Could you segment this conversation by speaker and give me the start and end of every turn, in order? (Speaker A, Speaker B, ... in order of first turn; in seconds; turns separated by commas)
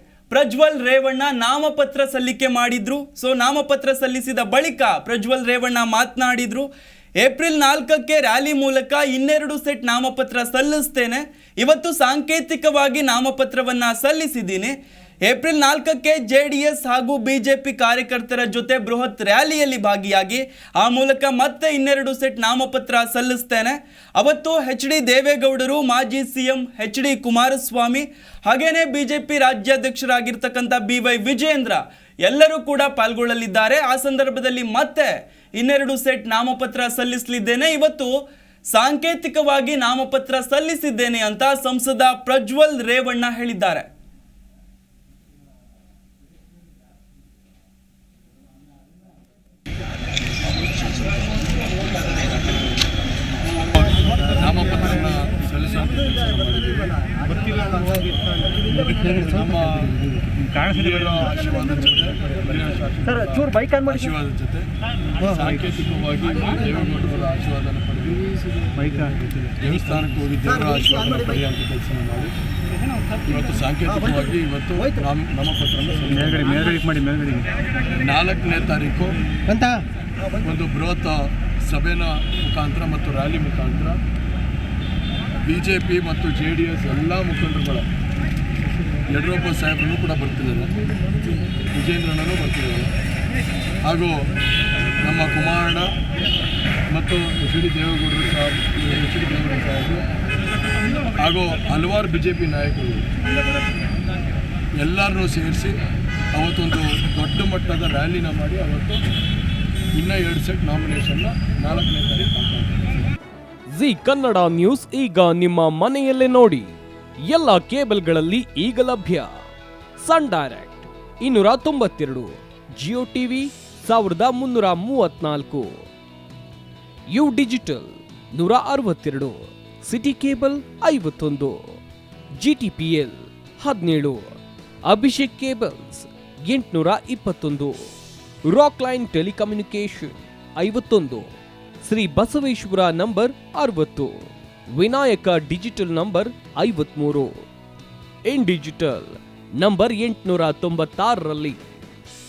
Speaker A: 0.3-6.7, Speaker A: 7.2-14.7, Speaker A: 15.2-38.1, Speaker A: 38.7-43.9, Speaker B: 54.3-56.9, Speaker C: 57.3-58.0, Speaker C: 58.8-59.4, Speaker B: 58.9-60.0, Speaker C: 60.5-60.9, Speaker B: 60.6-64.7, Speaker C: 63.4-63.8, Speaker B: 65.2-68.3, Speaker C: 68.8-69.1, Speaker B: 69.0-72.3, Speaker B: 73.2-76.9, Speaker C: 76.6-77.5, Speaker B: 77.9-79.2, Speaker C: 79.5-79.8, Speaker B: 80.4-84.0, Speaker B: 85.4-87.9, Speaker B: 89.1-90.7, Speaker B: 91.7-92.9, Speaker B: 93.8-94.3, Speaker B: 95.0-95.9, Speaker B: 96.9-100.0, Speaker B: 101.2-103.0, Speaker B: 104.8-105.8, Speaker B: 106.3-109.0, Speaker B: 109.9-112.8, Speaker D: 113.7-116.7, Speaker D: 117.2-119.3, Speaker D: 120.0-125.8, Speaker D: 127.1-131.8, Speaker D: 132.4-137.9, Speaker D: 138.5-147.4, Speaker D: 148.3-151.6